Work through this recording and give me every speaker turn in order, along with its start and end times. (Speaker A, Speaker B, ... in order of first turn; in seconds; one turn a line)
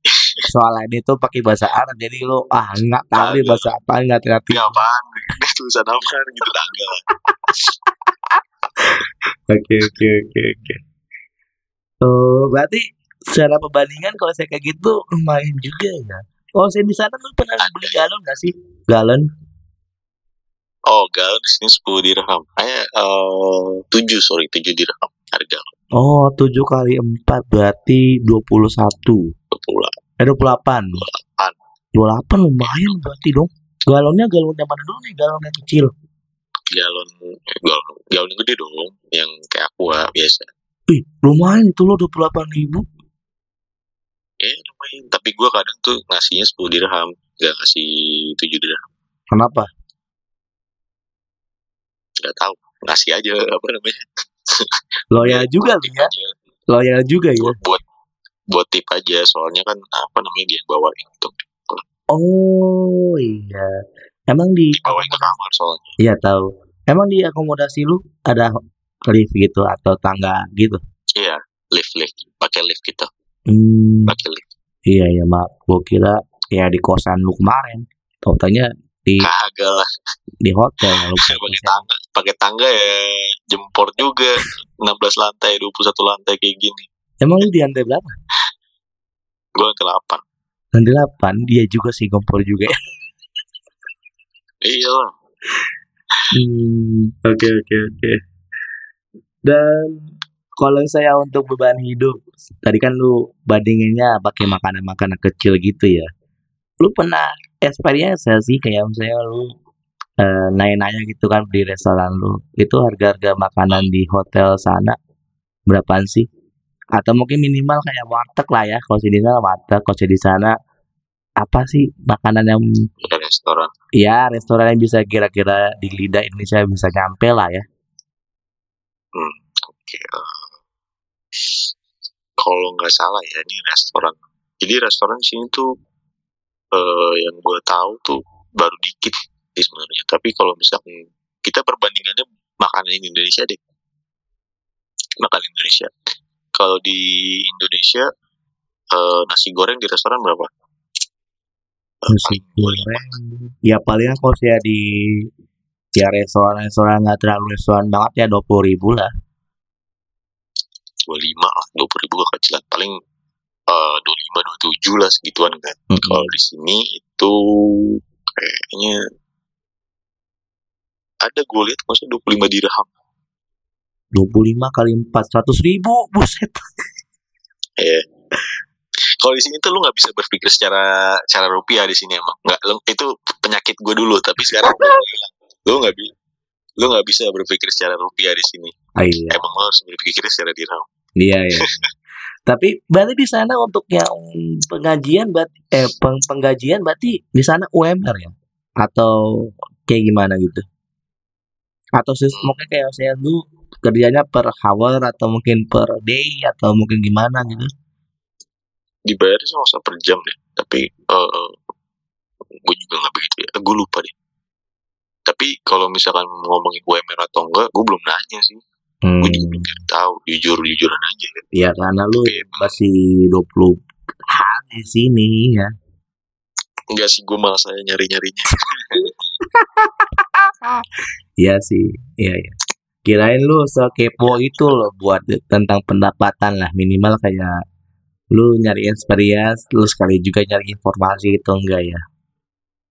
Speaker A: 0.1-0.4
Speaker B: 0.5-4.8
Speaker A: 3.1-3.6
Speaker A: 4.5-7.0
Speaker B: 7.3-7.6
Speaker B: 8.8-10.8
Speaker B: 12.0-19.2
Speaker A: 17.6-18.0
Speaker A: 20.9-25.7
Speaker B: 26.0-29.2
Speaker A: 29.5-29.9
Speaker B: 30.2-31.0
Speaker A: 31.0-31.6
Speaker B: 32.0-35.9
Speaker A: 32.6-33.0
Speaker A: 36.7-40.5
Speaker B: 40.9-42.8
Speaker A: 44.4-48.8
Speaker B: 49.3-49.7
Speaker A: 52.2-56.3
Speaker B: 55.1-56.1
Speaker B: 56.7-57.5
Speaker A: 57.4-57.8
Speaker A: 58.5-61.8
Speaker B: 62.1-63.7
Speaker B: 64.3-65.3
Speaker A: 64.7-65.9
Speaker B: 66.0-68.5
Speaker B: 69.1-70.8
Speaker A: 71.2-73.1
Speaker B: 73.5-74.2
Speaker A: 74.1-74.5
Speaker B: 74.9-79.3
Speaker A: 79.2-79.8
Speaker B: 80.4-81.8
Speaker A: 81.0-86.8
Speaker B: 87.2-88.1
Speaker A: 89.6-90.2
Speaker B: 90.7-92.7
Speaker A: 94.6-95.1
Speaker B: 96.3-98.2
Speaker B: 99.5-100.0
Speaker B: 100.6-106.1
Speaker B: 106.8-109.5
Speaker B: 110.2-114.9
Speaker B: 115.7-116.3
Speaker B: 117.0-120.5
Speaker B: 121.4-122.6
Speaker A: 123.0-123.7
Speaker B: 124.0-127.6
Speaker A: 129.1-130.5
Speaker A: 132.4-135.7
Speaker A: 136.7-143.6
Speaker A: 145.2-145.9
Speaker A: 146.6-148.0
Speaker A: 148.9-150.5
Speaker A: 152.0-153.1
Speaker B: 152.1-154.8
Speaker B: 156.0-159.1
Speaker A: 161.1-162.9
Speaker A: 163.7-167.3
Speaker B: 165.9-166.3
Speaker A: 168.3-169.0
Speaker A: 171.2-172.9
Speaker B: 174.1-176.6
Speaker A: 179.2-186.1
Speaker B: 184.5-185.0
Speaker A: 186.8-188.7
Speaker B: 189.0-189.4
Speaker A: 189.3-190.8
Speaker B: 191.2-191.7
Speaker A: 191.6-191.8
Speaker B: 192.5-199.1
Speaker B: 199.9-200.6
Speaker B: 202.0-207.7
Speaker A: 202.3-202.6
Speaker A: 209.1-211.6
Speaker A: 212.7-214.1
Speaker A: 215.3-218.6
Speaker B: 219.1-219.8
Speaker A: 219.2-221.4
Speaker B: 221.5-223.7
Speaker A: 222.2-222.8
Speaker B: 224.3-225.7
Speaker A: 226.9-229.0
Speaker B: 228.9-230.7
Speaker B: 231.4-232.5
Speaker B: 233.1-237.5
Speaker A: 234.3-234.6
Speaker B: 238.3-242.0